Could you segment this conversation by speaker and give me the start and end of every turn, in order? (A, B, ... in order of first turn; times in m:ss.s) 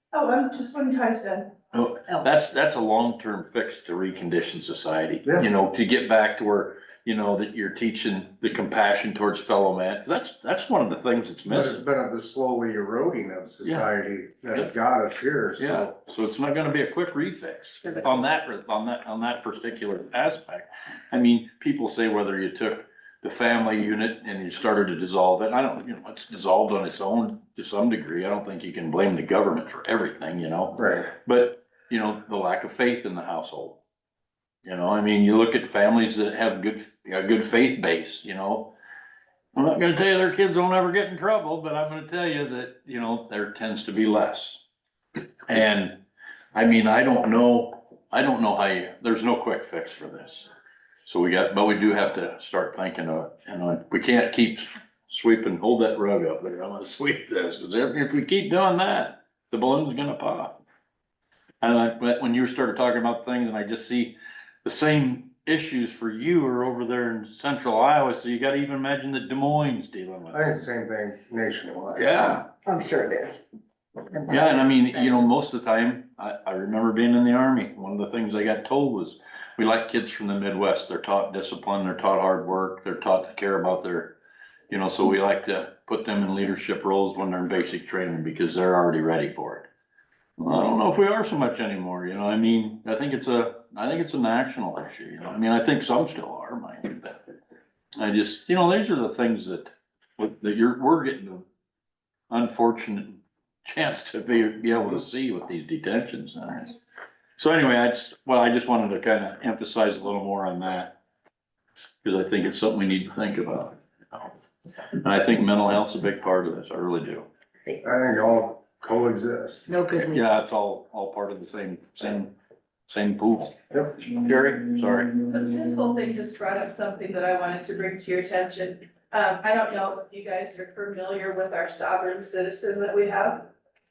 0:00.1-0:01.5 A
0:01.7-0:11.8 B
0:11.5-0:16.0 C
0:13.6-0:13.9 B
0:15.6-0:33.8 B
0:30.8-0:31.1 C
0:34.6-0:38.7 B
0:39.6-0:44.6 B
0:45.5-0:46.0 B
0:46.5-0:50.5 B
0:51.0-1:00.6 B
1:01.6-1:10.7 B
1:10.3-1:12.2 C
1:12.0-1:12.5 B
1:12.6-1:13.4 D
1:14.1-1:15.3 D
1:14.3-1:24.2 B
1:24.7-1:29.7 B
1:30.4-1:37.2 B
1:38.0-1:41.4 B
1:42.3-1:46.8 B
1:47.4-1:51.0 B
1:52.0-1:54.3 B
1:54.9-1:57.3 B
1:57.8-1:59.7 C
1:59.7-2:00.3 D
2:00.0-2:02.3 B
2:02.9-2:05.1 B
2:05.3-2:13.5 A